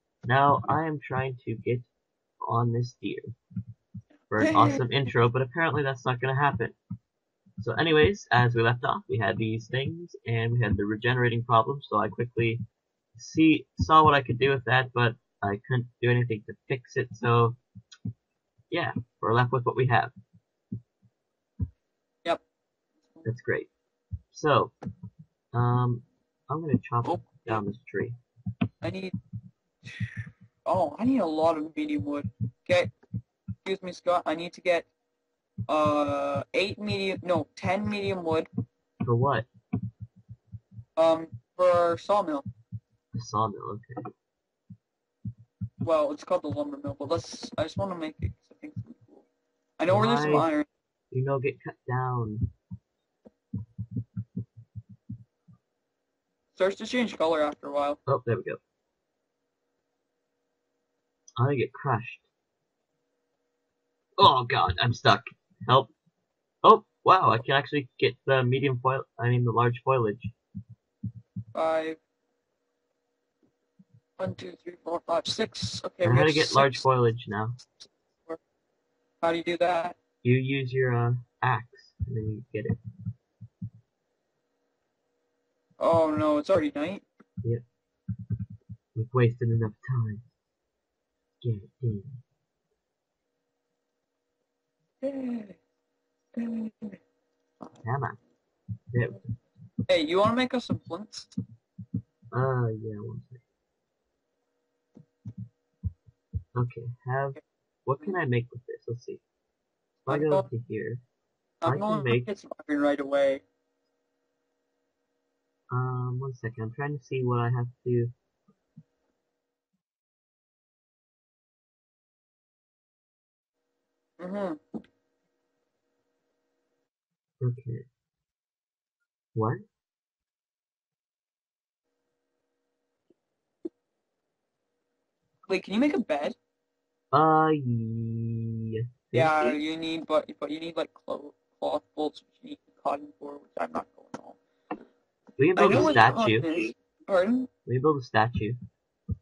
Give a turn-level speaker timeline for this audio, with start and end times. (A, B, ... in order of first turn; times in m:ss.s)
0:00.2-0:01.9 A
0:02.4-0:03.3 A
0:04.3-0:06.8 A
0:04.4-0:04.8 B
0:07.6-0:12.6 A
0:13.2-0:17.6 A
0:18.7-0:20.1 A
0:23.2-0:23.7 A
0:24.3-0:24.7 A
0:25.5-0:28.2 A
0:27.0-0:27.6 B
0:28.8-0:29.1 B
0:29.9-0:32.9 B
0:33.6-0:34.9 B
0:35.7-0:38.5 B
0:39.0-0:39.5 A
0:41.0-0:42.5 B
0:43.1-0:44.0 A
0:45.8-0:49.3 B
0:49.8-0:50.7 B
0:49.9-0:50.5 A
0:51.1-0:52.5 A
0:56.6-0:58.0 B
0:58.1-0:58.6 A
1:01.4-1:02.2 A
1:04.2-1:05.9 A
1:06.6-1:10.3 A
1:11.5-1:12.0 B
1:14.2-1:16.8 B
1:16.0-1:17.6 A
1:19.2-1:20.0 B
1:20.2-1:22.8 A
1:25.8-1:27.0 B
1:29.0-1:30.3 A
1:31.4-1:32.2 A
1:35.0-1:35.6 B
1:36.4-1:37.0 B
1:37.8-1:38.2 A
1:38.9-1:39.2 A
1:39.9-1:41.3 B
1:42.3-1:43.4 A
1:46.6-1:49.2 A
1:50.0-1:51.0 A
1:50.1-1:50.5 B
1:51.6-1:53.4 B
1:51.6-1:52.3 A
1:55.7-1:58.1 A
2:04.2-2:04.6 B
2:07.4-2:07.9 A
2:09.4-2:09.6 A
2:15.5-2:16.4 B
2:17.1-2:19.6 A
2:19.1-2:24.4 B
2:25.4-2:26.5 A
2:25.6-2:27.5 B
2:27.7-2:28.6 A